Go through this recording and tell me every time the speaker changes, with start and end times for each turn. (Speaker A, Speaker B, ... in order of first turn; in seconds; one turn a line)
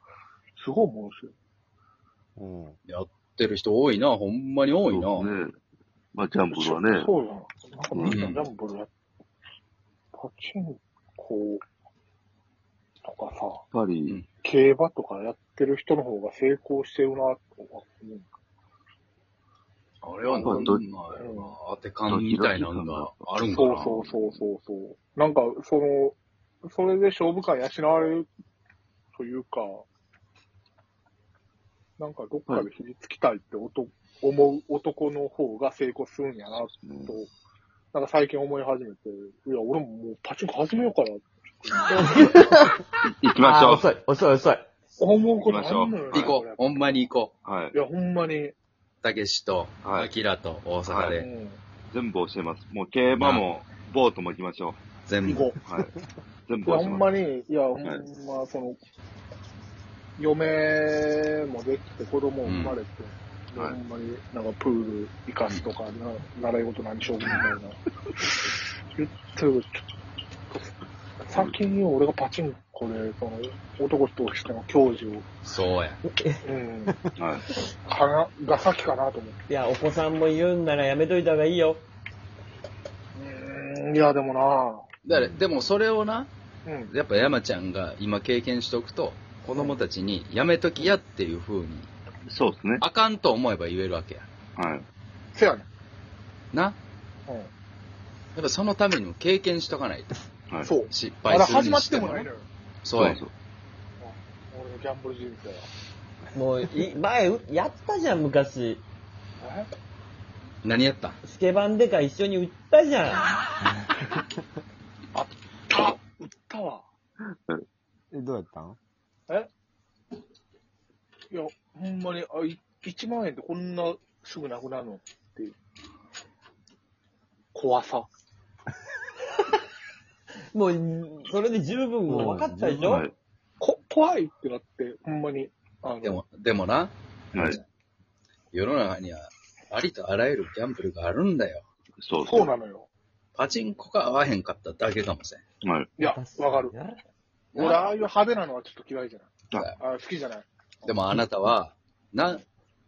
Speaker A: 0.6-1.3
Speaker B: 2.4-2.8
Speaker C: 2.9-5.3
Speaker D: 4.9-5.5
Speaker D: 6.1-7.1
Speaker A: 6.4-8.9
Speaker D: 7.9-8.4
Speaker C: 8.0-8.4
Speaker A: 10.1-11.6
Speaker A: 13.0-13.6
Speaker D: 13.7-14.2
Speaker A: 14.4-18.3
Speaker C: 20.0-24.1
Speaker A: 20.2-21.5
Speaker D: 20.4-20.8
Speaker D: 22.1-23.6
Speaker A: 23.5-28.3
Speaker D: 24.1-24.4
Speaker A: 29.1-29.8
Speaker A: 32.0-37.2
Speaker D: 36.6-37.1
Speaker A: 37.9-42.2
Speaker E: 41.9-42.8
Speaker D: 43.0-43.9
Speaker E: 43.4-44.7
Speaker A: 45.0-47.1
Speaker D: 45.4-46.4
Speaker C: 46.1-47.3
Speaker D: 47.4-47.8
Speaker A: 47.7-48.5
Speaker C: 49.0-51.3
Speaker D: 49.8-50.1
Speaker D: 50.9-51.2
Speaker A: 51.2-51.6
Speaker D: 51.9-54.8
Speaker C: 53.1-53.5
Speaker C: 55.0-55.5
Speaker A: 55.2-55.6
Speaker D: 55.6-55.9
Speaker D: 56.5-57.1
Speaker A: 56.6-58.8
Speaker A: 60.2-67.8
Speaker C: 62.4-62.8
Speaker A: 69.0-69.8
Speaker A: 70.5-75.2
Speaker D: 71.3-71.6
Speaker C: 75.4-76.0
Speaker E: 76.1-76.4
Speaker A: 76.4-77.0
Speaker D: 77.2-77.5
Speaker A: 77.8-79.4
Speaker E: 79.5-81.8
Speaker A: 83.1-84.8
Speaker C: 85.0-86.3
Speaker B: 85.1-85.5
Speaker A: 86.7-86.9
Speaker C: 86.9-91.9
Speaker A: 89.5-89.8
Speaker D: 92.2-92.8
Speaker C: 92.8-94.2
Speaker D: 94.6-94.9
Speaker A: 95.3-95.7
Speaker C: 96.5-96.8
Speaker C: 98.3-100.2
Speaker D: 100.5-100.7
Speaker A: 100.6-102.5
Speaker C: 100.8-102.3
Speaker C: 102.8-103.2
Speaker D: 102.9-103.3
Speaker A: 104.0-105.7
Speaker E: 106.3-108.8
Speaker A: 109.4-109.7
Speaker C: 110.6-111.2
Speaker E: 111.2-113.2
Speaker A: 115.1-116.8
Speaker B: 118.1-118.8
Speaker A: 121.3-125.5
Speaker A: 127.5-128.1
Speaker E: 130.5-133.1
Speaker B: 132.1-132.9
Speaker D: 132.8-133.1
Speaker A: 133.6-136.2
Speaker C: 136.0-137.6
Speaker D: 137.3-137.6
Speaker C: 138.5-141.7
Speaker D: 142.0-142.5
Speaker A: 142.2-142.9
Speaker C: 143.3-145.4
Speaker D: 145.6-145.9
Speaker A: 146.0-146.7
Speaker E: 146.0-147.0
Speaker C: 147.5-147.8
Speaker A: 147.5-151.0
Speaker C: 150.8-152.4